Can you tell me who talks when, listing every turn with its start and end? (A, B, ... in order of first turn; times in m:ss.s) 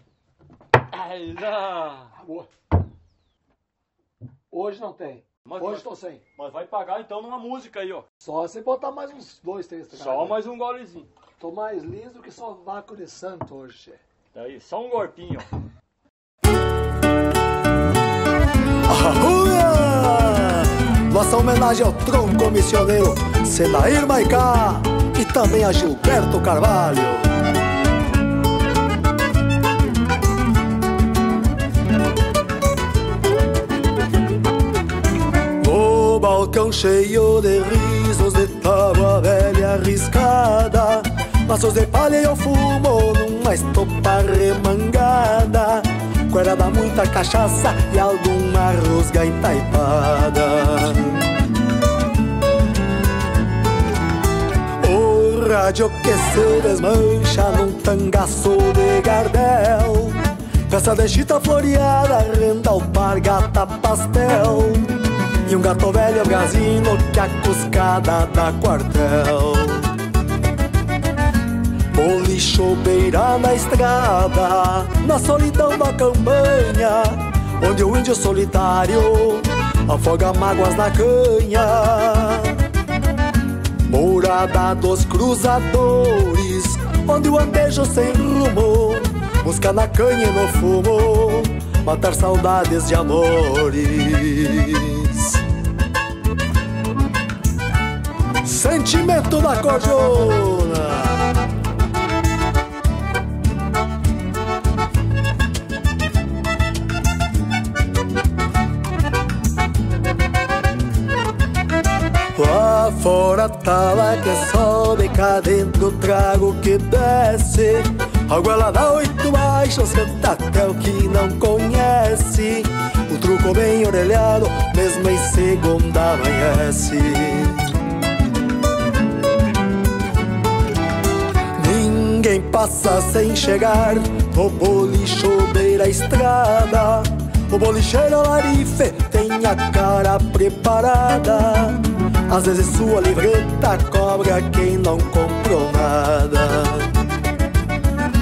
0:00.9-0:02.2 A
0:02.2-0:02.5 B
0:04.5-0:06.2 B
0:05.4-0:08.1 A
0:08.2-0:10.4 B
0:09.9-0:11.1 A
0:11.4-0:14.0 B
0:14.3-0:15.5 A
0:18.9-0:27.3 C
0:35.6-0:51.3 C
0:54.8-1:09.9 C
1:11.9-1:22.6 C
1:23.9-1:35.4 C
1:38.4-1:41.3 C
1:52.3-2:07.8 C
2:11.6-2:26.9 C